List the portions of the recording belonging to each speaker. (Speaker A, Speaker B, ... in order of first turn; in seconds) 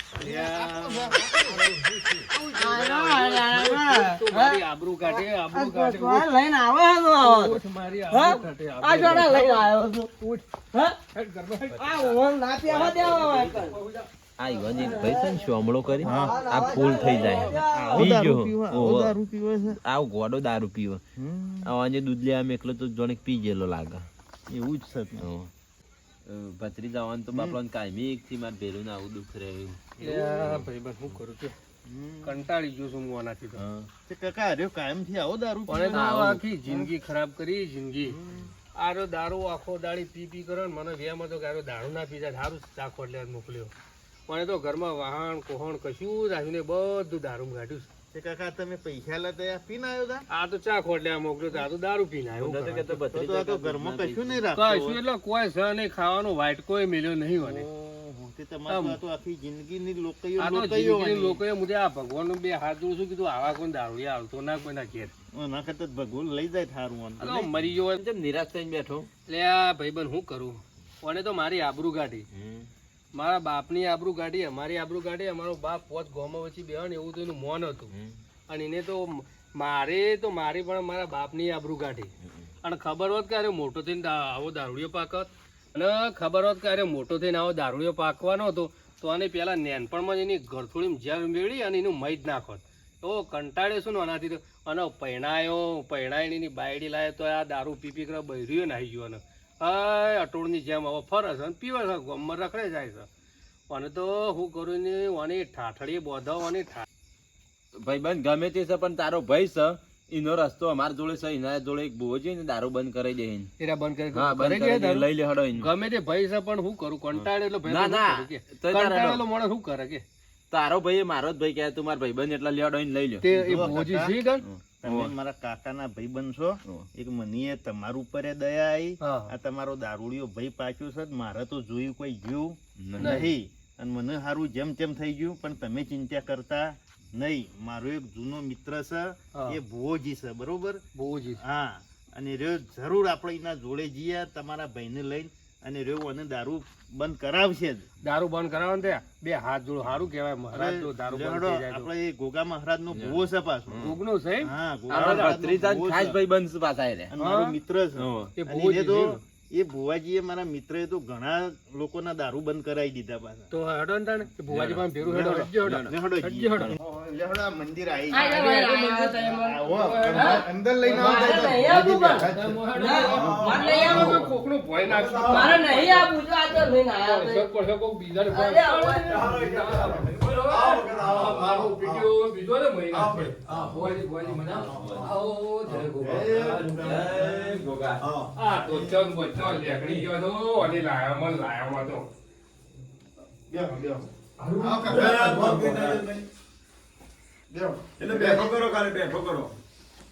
Speaker A: 0.2-1.6, 16.0-16.4, 17.7-19.8, 21.2-21.7, 24.5-25.3, 27.3-27.6, 31.9-32.4, 34.1-36.1, 36.7-36.9, 38.0-38.5, 48.1-50.2, 53.1-55.0, 57.4-61.4, 65.3-67.5, 123.3-124.2, 124.8-140.8, 141.4-147.9, 150.5-156.2, 157.1-163.5, 165.0-168.4, 169.2-173.5, 185.7-187.6, 188.6-189.0, 193.5-194.1, 194.6-196.0, 197.5-198.5
Speaker B: 0.2-6.3, 7.2-10.5, 11.1-12.2, 12.7-14.1, 14.6-15.0, 16.6-17.6, 30.0-31.6, 32.2-33.6, 35.7-38.2, 38.8-43.7, 44.3-47.9, 50.3-53.0, 54.5-57.6, 58.7-59.0, 60.4-65.1, 67.2-68.0, 69.3-72.2, 73.2-77.9, 78.5-82.1, 82.6-103.1, 103.7-106.9, 113.6-120.0, 123.2-124.4, 129.0-129.3, 133.0-133.3, 139.3-139.6, 140.9-141.4, 148.0-151.9, 153.8-155.3, 157.2-157.6, 158.4-159.2, 163.5-166.8, 168.2-176.1, 177.0-186.7, 188.3-192.1, 194.4-195.6
Speaker C: 2.5-7.6, 8.1-10.1, 11.8-13.8, 14.8-15.4, 16.0-18.2, 168.1-169.5, 170.1-174.2, 175.3-177.5, 178.3-179.1
Speaker D: 12.7-13.6, 14.4-19.2, 19.8-21.0, 21.6-24.1, 25.2-25.5, 26.3-30.7, 33.6-33.9, 35.9-36.4, 52.4-54.6, 68.0-69.1, 72.3-72.7, 77.9-78.2, 107.8-113.5, 114.1-115.7, 117.1-119.2, 120.5-123.2, 124.5-125.1, 132.8-133.3, 152.9-153.9, 154.9-157.1, 158.0-158.3, 164.5-164.8, 165.6-165.9, 183.5-185.1, 186.4-188.0, 189.3-190.1
Speaker E: 172.9-175.9, 179.1-182.1, 182.9-183.7, 184.5-185.1, 188.0-188.3, 194.9-196.2, 198.0-199.5